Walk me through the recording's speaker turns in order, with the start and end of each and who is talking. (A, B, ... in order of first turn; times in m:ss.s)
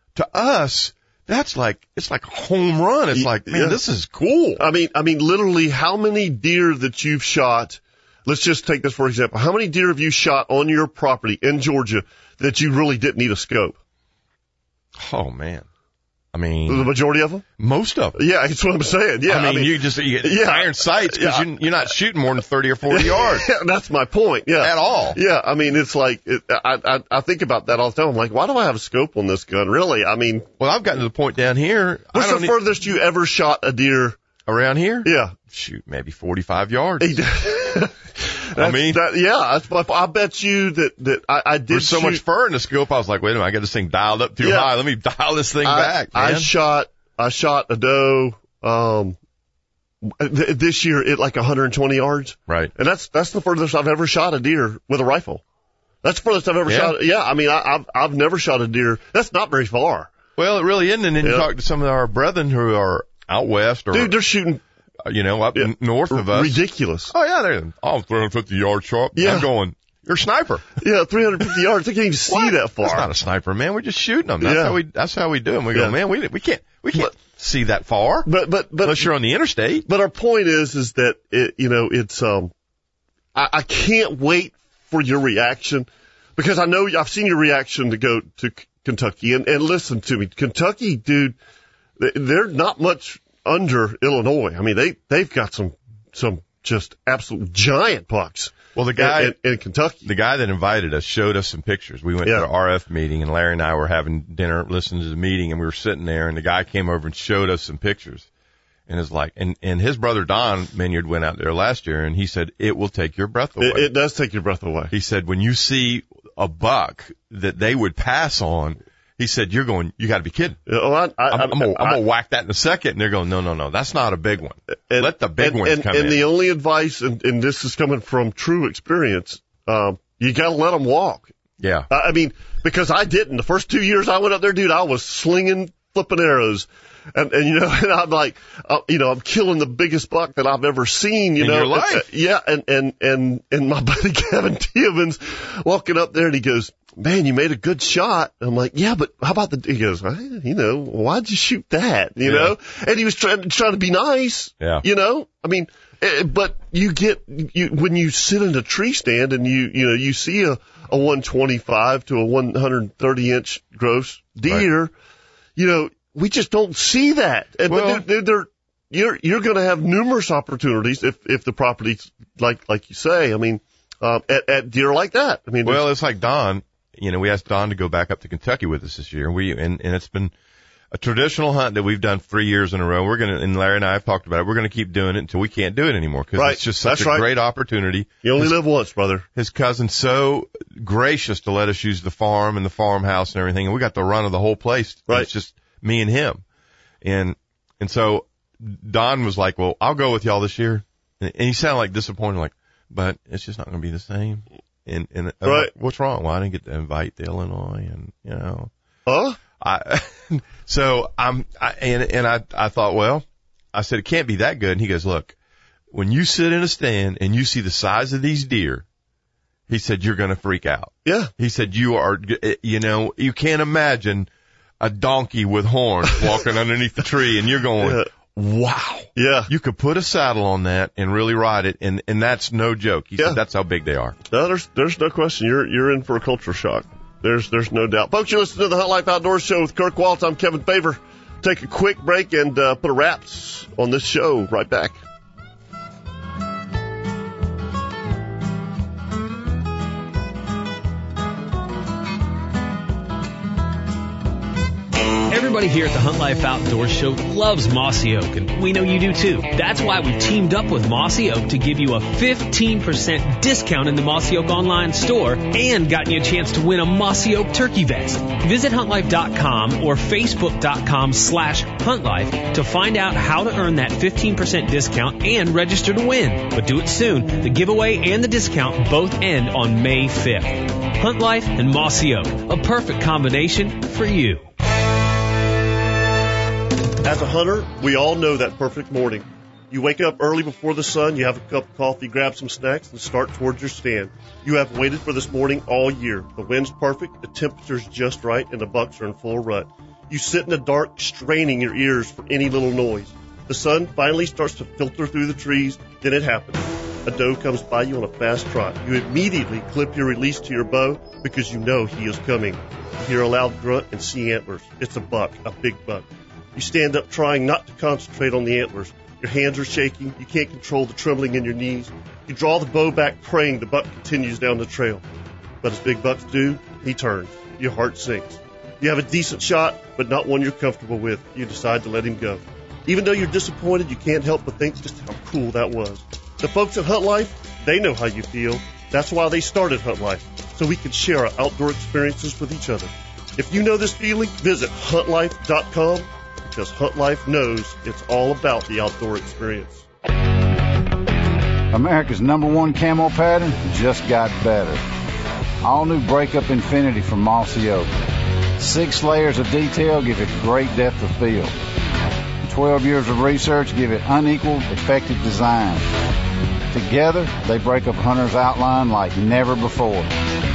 0:00.1-0:04.6 A
0:03.1-0:03.8 B
0:04.6-0:13.8 B
0:15.0-0:15.7 A
0:16.3-0:16.9 A
0:16.7-0:17.4 B
0:17.6-0:18.2 A
0:18.2-0:21.5 B
0:19.3-0:23.5 A
0:22.9-0:30.5 B
0:24.6-0:25.2 A
0:30.6-0:32.6 A
0:32.1-0:34.2 B
0:34.4-0:37.2 A
0:35.0-0:35.4 B
0:37.0-0:42.2 B
0:38.5-0:39.0 A
0:41.7-0:46.5 A
0:44.4-0:44.7 B
0:45.6-0:49.2 B
0:50.0-0:55.4 B
0:56.0-1:00.1 B
0:56.7-0:57.0 A
1:00.4-1:04.2 A
1:01.2-1:01.5 B
1:03.9-1:04.6 B
1:05.0-1:10.8 A
1:05.6-1:07.1 B
1:09.1-1:09.5 B
1:10.8-1:13.1 B
1:12.3-1:18.3 A
1:14.4-1:14.8 B
1:18.3-1:19.1 B
1:18.8-1:19.9 A
1:19.9-1:22.5 B
1:23.3-1:31.4 B
1:32.0-1:40.1 B
1:38.7-1:39.4 A
1:40.0-1:48.3 A
1:48.9-1:53.9 A
1:53.6-1:54.9 B
1:54.9-2:00.6 A
2:00.7-2:02.0 B
2:01.3-2:06.2 A
2:04.9-2:11.3 B
2:11.6-2:11.9 A
2:11.9-2:44.9 B
2:21.4-2:22.0 A
2:32.2-2:32.6 A
2:34.6-2:34.8 A
2:45.6-2:55.9 B
2:47.7-2:48.0 A
2:55.6-3:00.3 A
3:00.9-3:08.6 A
3:06.4-3:07.3 B
3:08.2-3:09.3 B
3:09.4-3:16.4 A
3:17.0-3:28.7 A
3:25.4-3:25.7 B
3:29.1-3:29.4 B
3:29.6-3:35.4 A
3:35.9-3:38.8 A
3:39.7-3:44.3 A
3:41.0-3:41.3 B
3:44.8-3:54.2 A
3:47.8-3:48.1 B
3:49.1-3:49.5 B
3:54.3-4:05.0 B
4:15.3-4:44.5 C
4:47.0-5:25.0 B
5:25.6-5:49.9 B
5:51.7-5:54.8 D
5:55.6-5:57.9 D
5:58.6-6:01.6 D
6:02.4-6:05.9 D
6:06.7-6:10.1 D